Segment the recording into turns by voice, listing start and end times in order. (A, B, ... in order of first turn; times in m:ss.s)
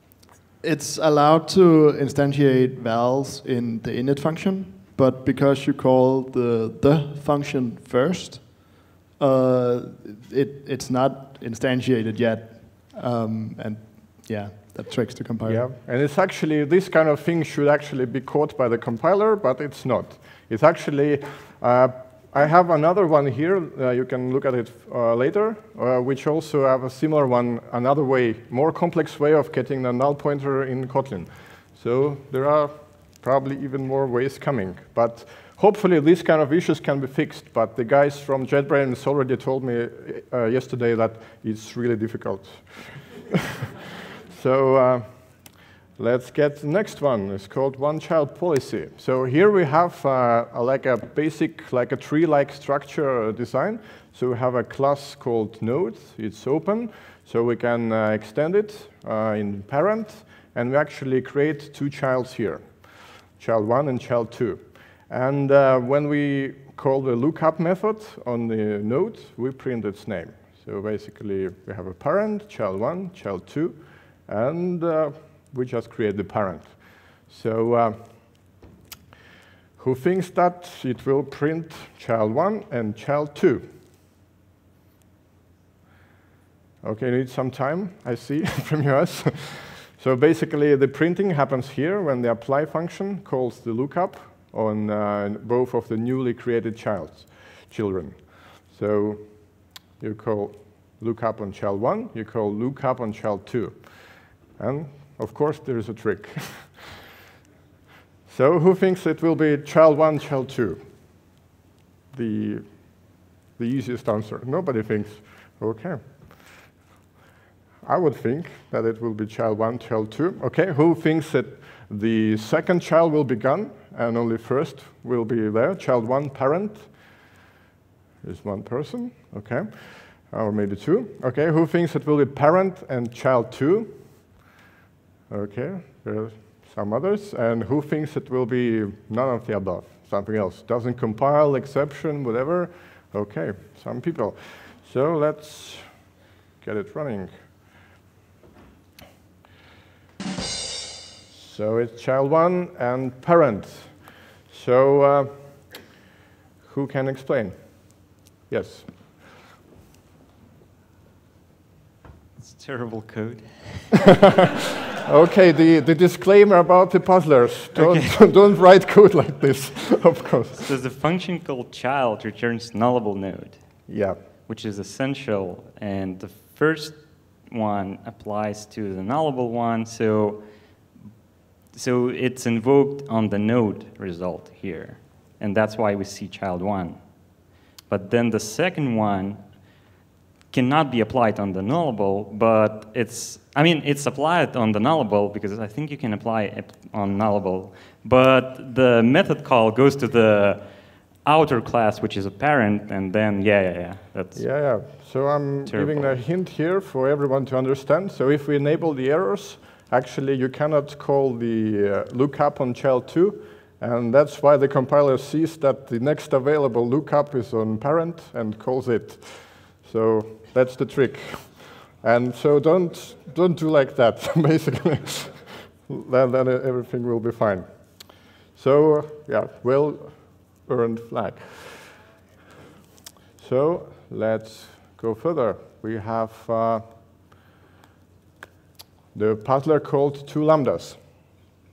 0:00.6-0:15.7 A
0:15.4-0:43.7 B
0:44.3-1:18.5 B
1:19.8-1:23.7 B
1:26.8-1:46.9 B
1:48.3-1:50.9 B
1:52.1-1:56.5 B
1:57.8-2:07.1 B
2:08.2-2:14.4 B
2:15.3-2:25.9 B
2:26.6-2:27.3 B
2:31.3-2:35.7 B
2:36.6-2:38.9 B
2:42.4-2:44.0 C
2:45.0-2:50.7 B
2:47.8-2:48.2 C
2:50.5-2:53.9 C
2:53.9-2:54.2 B
2:54.5-3:01.0 C
3:01.7-3:09.8 C
3:10.5-3:24.9 C
3:24.3-3:52.0 B
3:25.7-3:26.2 C
3:53.4-3:56.8 B
3:59.1-4:01.0 B